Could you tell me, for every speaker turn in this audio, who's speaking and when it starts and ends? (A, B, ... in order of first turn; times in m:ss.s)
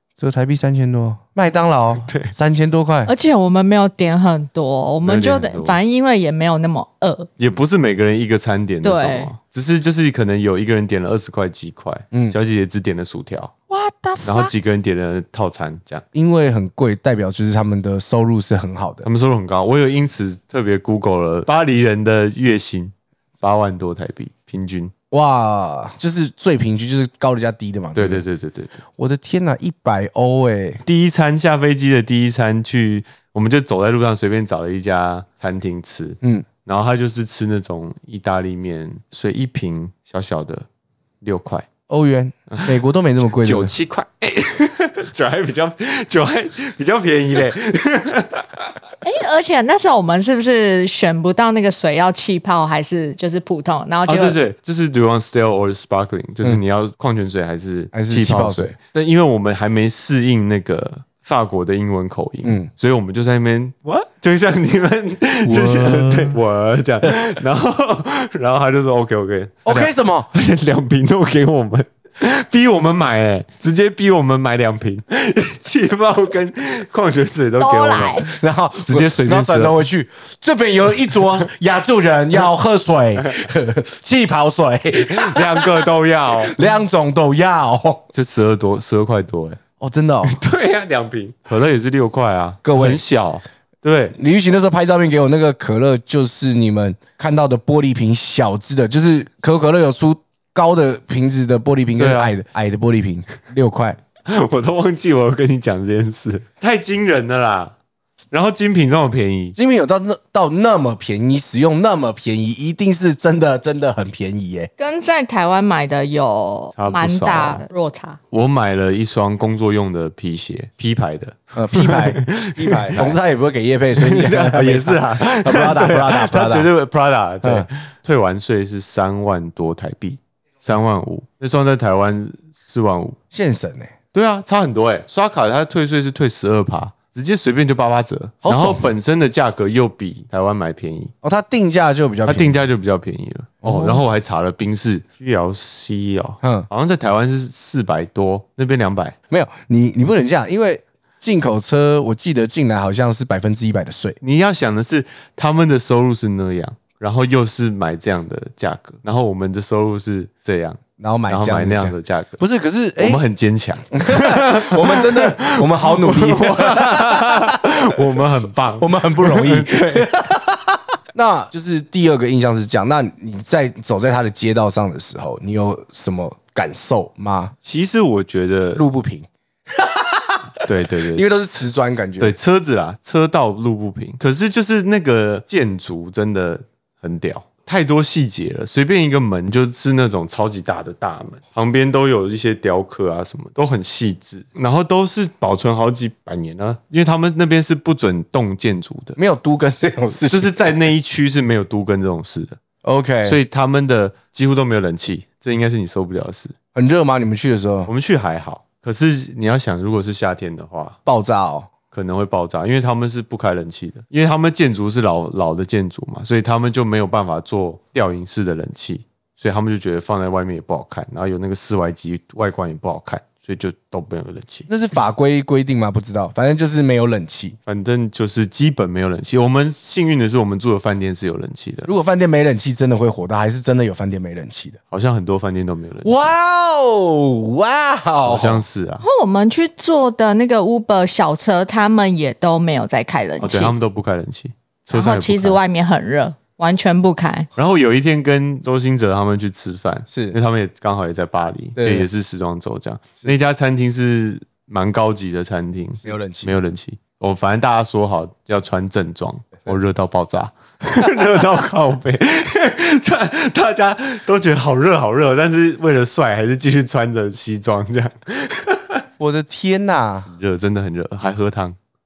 0:00.2-0:03.1 A
0:01.9-0:02.3 B
0:03.1-0:07.3 C
0:05.0-0:05.8 B
0:07.4-0:13.5 B
0:08.8-0:09.3 C
0:13.7-0:14.5 A
0:14.2-0:16.0 B
0:16.1-0:19.1 A
0:19.0-0:24.9 B
0:25.1-0:28.2 A
0:28.0-0:28.8 B
0:29.0-0:30.8 A
0:30.8-0:40.7 B
0:36.2-0:36.5 A
0:41.2-0:41.7 B
0:41.9-0:43.7 A
0:43.3-0:48.7 B
0:49.0-0:54.4 C
0:54.1-1:19.8 B
0:57.9-0:58.8 A
1:02.4-1:02.7 A
1:05.5-1:06.4 A
1:09.6-1:10.3 A
1:17.6-1:18.3 C
1:18.4-1:28.0 A
1:24.9-1:26.6 B
1:28.1-1:29.6 B
1:29.8-1:30.4 A
1:30.2-1:34.2 B
1:32.6-1:33.0 A
1:34.2-1:44.0 A
1:42.0-1:42.4 B
1:44.3-1:47.7 B
1:48.3-1:49.6 B
1:49.6-1:54.7 A
1:54.8-1:58.2 C
1:56.8-1:57.6 B
1:58.3-2:03.2 B
2:01.6-2:06.7 A
2:04.0-2:13.2 B
2:13.3-2:13.9 A
2:14.1-2:21.1 B
2:18.4-2:18.9 A
2:21.2-2:22.6 A
2:22.3-2:29.2 B
2:23.6-2:24.0 A
2:26.4-2:26.7 A
2:29.3-2:34.2 A
2:34.2-2:42.4 B
2:41.0-2:43.2 A
2:43.0-2:50.1 B
2:43.9-2:47.6 A
2:48.8-2:57.5 A
2:57.6-2:58.8 B
2:58.8-3:00.4 A
3:00.6-3:01.5 B
3:01.0-3:02.4 A
3:02.2-3:19.2 B
3:19.2-3:20.9 A
3:20.2-3:22.6 B
3:22.8-3:23.4 A
3:23.2-3:26.5 B
3:26.7-3:27.9 A
3:27.9-3:31.0 B
3:31.1-3:31.7 A
3:31.9-3:44.7 B
3:44.7-3:47.6 A
3:47.7-3:51.9 B
3:51.9-3:54.8 A
3:54.9-3:56.3 B
3:56.0-3:58.6 A
3:58.2-3:59.0 B
3:59.0-4:03.7 C
4:03.4-4:05.6 B
4:04.9-4:07.5 C
4:07.6-4:29.0 B
4:10.1-4:10.4 A
4:11.8-4:12.1 A
4:16.0-4:16.6 A
4:29.2-4:30.3 A
4:30.3-4:31.8 B